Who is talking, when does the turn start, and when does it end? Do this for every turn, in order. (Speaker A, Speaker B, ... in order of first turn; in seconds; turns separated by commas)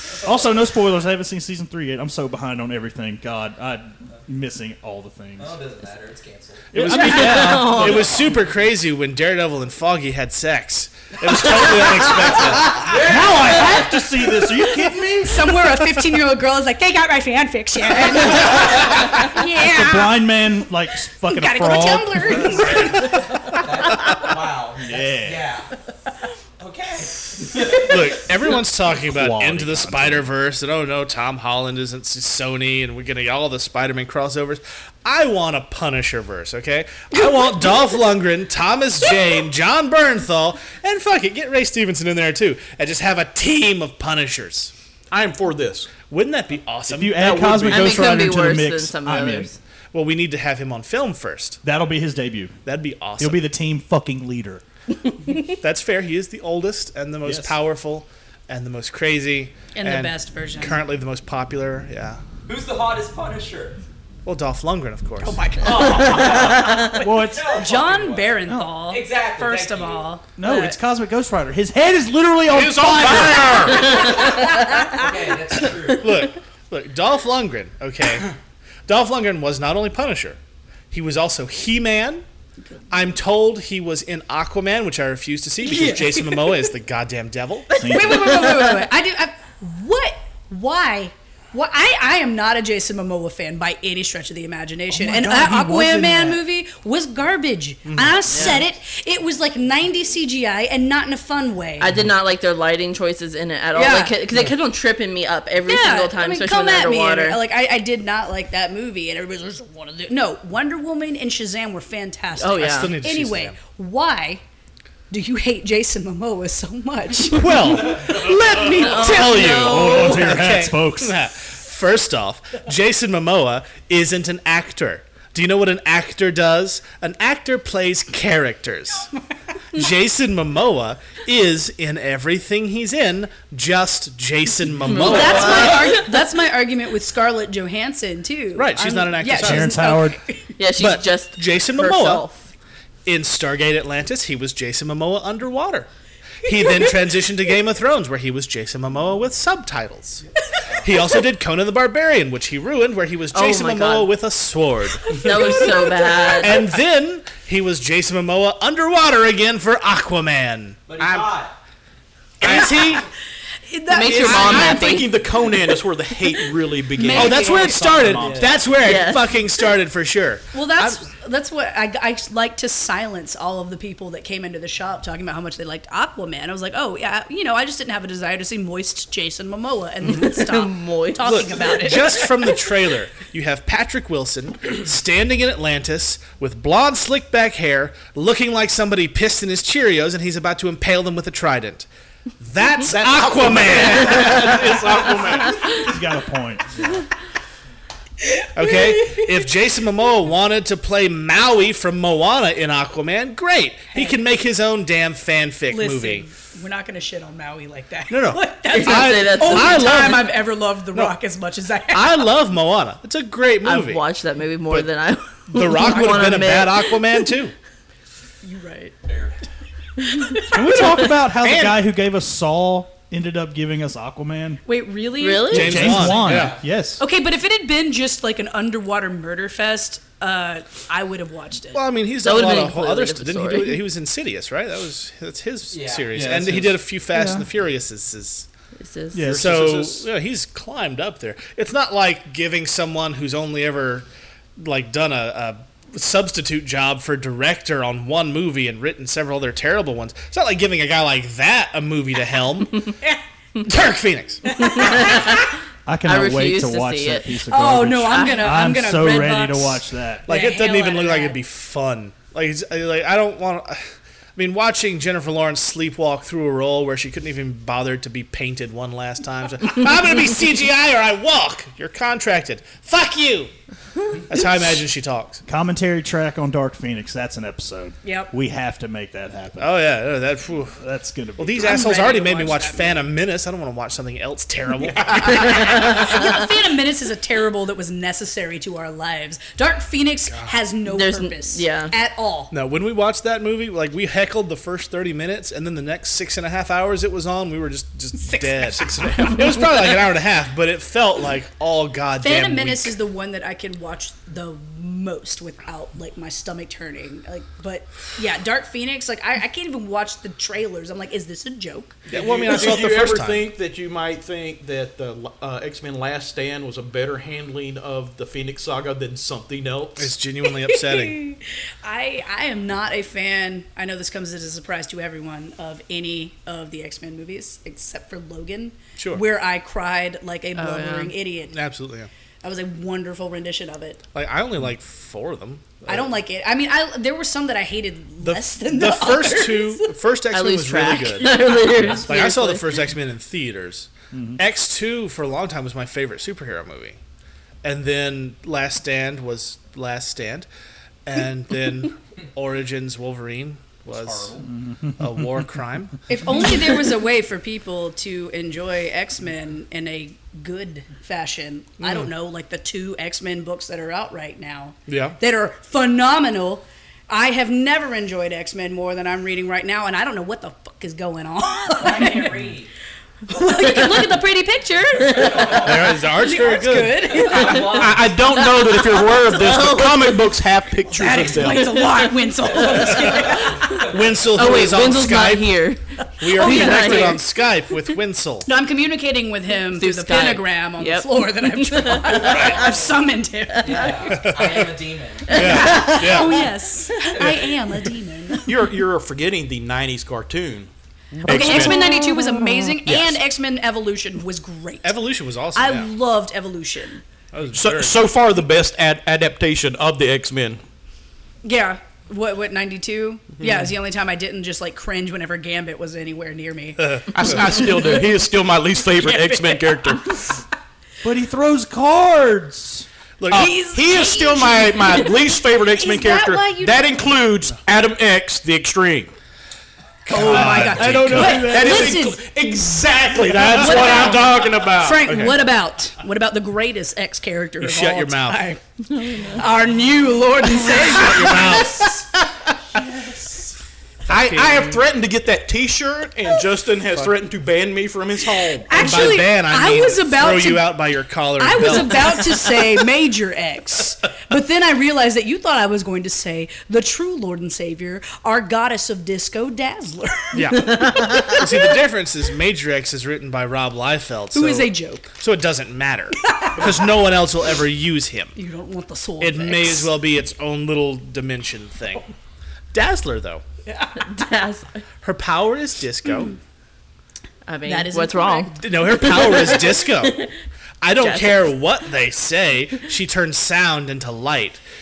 Speaker A: 0.2-5.6, Speaker B: 5.4-7.0, Speaker A: 6.7-8.3, Speaker C: 6.8-13.0, Speaker D: 7.0-8.1, Speaker B: 12.6-14.0, Speaker A: 12.7-15.8, Speaker E: 15.2-20.3, Speaker A: 18.3-23.0, Speaker E: 21.2-23.1, Speaker B: 23.4-25.7, Speaker A: 24.8-25.5, Speaker B: 26.6-28.1, Speaker C: 27.7-44.7, Speaker A: 29.0-30.3, Speaker F: 45.1-45.9, Speaker C: 46.0-48.0, Speaker A: 46.9-49.5, Speaker F: 47.2-47.9, Speaker D: 47.6-49.6, Speaker C: 49.9-51.6, Speaker A: 51.6-52.6, Speaker C: 52.6-53.5, Speaker A: 53.2-54.6, Speaker C: 55.4-62.2, Speaker A: 57.2-57.5, Speaker E: 59.7-60.8, Speaker B: 62.5-63.8, Speaker C: 64.2-65.4, Speaker E: 65.2-70.8, Speaker B: 65.6-70.1, Speaker A: 67.0-67.6, Speaker A: 70.4-73.9, Speaker F: 72.5-74.0, Speaker D: 73.9-74.2, Speaker E: 74.0-75.0, Speaker B: 74.1-76.1, Speaker C: 75.9-78.3, Speaker C: 78.9-80.4, Speaker C: 80.9-82.2, Speaker C: 82.9-87.8, Speaker E: 85.6-86.7, Speaker E: 87.8-101.9, Speaker A: 87.8-88.5, Speaker D: 88.4-88.8, Speaker A: 94.9-96.4, Speaker C: 97.9-98.5, Speaker D: 98.3-98.6, Speaker D: 101.8-107.4, Speaker E: 103.7-104.2, Speaker E: 105.7-114.4, Speaker D: 112.4-113.0, Speaker C: 112.5-113.5, Speaker E: 115.1-119.8, Speaker C: 117.3-129.1, Speaker D: 118.7-120.4, Speaker A: 119.6-121.2, Speaker C: 129.7-136.0, Speaker D: 134.8-136.0, Speaker E: 134.9-140.5, Speaker C: 138.5-139.9, Speaker A: 139.3-140.2, Speaker D: 140.6-142.5, Speaker C: 140.8-142.2, Speaker C: 143.1-145.9, Speaker C: 146.4-150.3, Speaker C: 150.8-155.8, Speaker D: 153.3-154.1, Speaker D: 155.0-156.7, Speaker E: 155.2-156.4, Speaker C: 156.2-161.4, Speaker B: 160.9-161.5, Speaker C: 162.4-163.0, Speaker E: 162.4-163.0, Speaker F: 162.5-163.0, Speaker E: 163.7-165.2, Speaker D: 163.9-165.1, Speaker F: 164.0-168.5, Speaker E: 166.9-168.1, Speaker C: 167.1-171.0, Speaker B: 167.8-168.7, Speaker A: 168.0-168.4, Speaker D: 168.8-169.4, Speaker E: 170.5-182.3, Speaker D: 180.1-181.6, Speaker C: 181.2-191.9, Speaker C: 192.4-195.0, Speaker F: 192.8-195.8, Speaker A: 195.7-197.1, Speaker C: 198.5-206.3, Speaker E: 203.9-204.2, Speaker E: 205.7-212.2, Speaker C: 208.1-211.2, Speaker D: 208.7-210.2, Speaker C: 211.9-214.0, Speaker D: 213.6-217.2, Speaker C: 215.5-217.5, Speaker E: 218.4-218.9, Speaker B: 219.0-219.4, Speaker E: 220.0-220.8, Speaker A: 220.5-224.6, Speaker F: 221.4-221.8, Speaker E: 224.7-226.1, Speaker D: 225.2-226.0, Speaker C: 225.5-226.5, Speaker A: 225.5-227.0, Speaker B: 226.0-226.6, Speaker E: 227.0-231.8, Speaker C: 231.7-238.5, Speaker D: 232.2-233.9, Speaker B: 235.7-236.8, Speaker A: 237.1-237.5, Speaker D: 238.8-239.2, Speaker A: 239.1-239.5, Speaker F: 239.2-240.1, Speaker C: 239.3-244.1, Speaker C: 244.6-253.0, Speaker C: 253.6-255.1, Speaker E: 254.5-255.3, Speaker D: 254.6-258.4, Speaker A: 255.8-260.3, Speaker E: 257.5-261.4, Speaker C: 260.3-263.8, Speaker C: 264.4-273.5, Speaker C: 274.2-275.4, Speaker A: 275.5-279.8, Speaker E: 278.0-278.3, Speaker C: 279.6-280.8, Speaker A: 280.8-281.9, Speaker C: 281.4-286.4, Speaker E: 281.6-283.1, Speaker E: 285.1-292.5, Speaker D: 290.9-291.9, Speaker C: 292.5-302.9, Speaker E: 298.1-299.7, Speaker E: 302.2-312.0, Speaker C: 312.1-313.5, Speaker F: 312.1-320.1, Speaker C: 320.0-321.2, Speaker E: 320.4-331.6, Speaker C: 329.0-329.2, Speaker D: 330.6-331.1, Speaker C: 331.5-332.1, Speaker E: 332.4-334.0, Speaker C: 334.1-336.1, Speaker E: 335.9-340.1, Speaker C: 338.2-347.0, Speaker D: 340.3-342.8, Speaker E: 340.8-342.0, Speaker A: 344.1-344.4, Speaker C: 347.6-350.5, Speaker C: 351.1-354.4, Speaker F: 353.9-354.5, Speaker A: 354.5-355.5, Speaker C: 355.0-356.0, Speaker E: 356.1-372.5, Speaker C: 361.8-362.1, Speaker C: 364.9-365.2, Speaker B: 371.7-372.7, Speaker E: 373.3-377.9, Speaker B: 375.1-375.9, Speaker C: 375.6-377.2, Speaker B: 377.1-378.1, Speaker D: 377.2-377.8, Speaker F: 377.7-381.8, Speaker D: 378.4-380.3, Speaker E: 380.9-383.9, Speaker D: 381.7-382.1, Speaker B: 382.5-383.8, Speaker C: 383.8-385.5, Speaker D: 384.3-387.2, Speaker E: 386.2-387.2, Speaker C: 386.2-388.5, Speaker E: 388.5-394.3, Speaker D: 389.7-392.5, Speaker B: 392.2-392.8, Speaker B: 393.6-395.8, Speaker C: 394.1-394.7, Speaker D: 395.3-396.2, Speaker C: 395.3-396.5, Speaker E: 395.3-398.5, Speaker C: 397.2-397.5, Speaker F: 398.5-400.7, Speaker F: 401.2-401.9, Speaker E: 401.2-405.0, Speaker C: 401.3-401.6, Speaker D: 401.6-402.7, Speaker C: 402.9-403.1, Speaker C: 404.8-405.9, Speaker E: 405.5-407.0, Speaker C: 407.3-408.0, Speaker F: 407.5-410.6, Speaker E: 411.4-418.0, Speaker C: 416.8-417.5, Speaker F: 417.1-420.2, Speaker E: 418.9-420.4, Speaker A: 421.0-422.9, Speaker C: 423.2-423.6, Speaker E: 423.3-426.9, Speaker F: 423.3-429.1, Speaker C: 430.1-431.6, Speaker E: 430.1-432.2, Speaker A: 430.1-431.9, Speaker F: 431.2-435.2, Speaker C: 433.4-434.0, Speaker E: 433.5-441.9, Speaker C: 435.1-435.4, Speaker C: 437.6-438.4, Speaker D: 438.9-439.4, Speaker C: 440.7-442.0, Speaker C: 444.1-444.8, Speaker F: 444.1-449.1, Speaker E: 448.5-450.8, Speaker C: 448.8-452.4, Speaker E: 451.4-461.4, Speaker C: 460.3-468.3, Speaker E: 464.3-465.1, Speaker E: 466.3-466.7, Speaker E: 468.4-469.9, Speaker C: 469.2-472.1, Speaker C: 472.7-473.4, Speaker E: 473.7-474.3, Speaker D: 474.0-474.8, Speaker C: 475.0-476.4, Speaker D: 477.4-480.3, Speaker E: 477.6-478.6, Speaker C: 478.6-480.3, Speaker C: 480.8-484.6, Speaker D: 481.0-481.5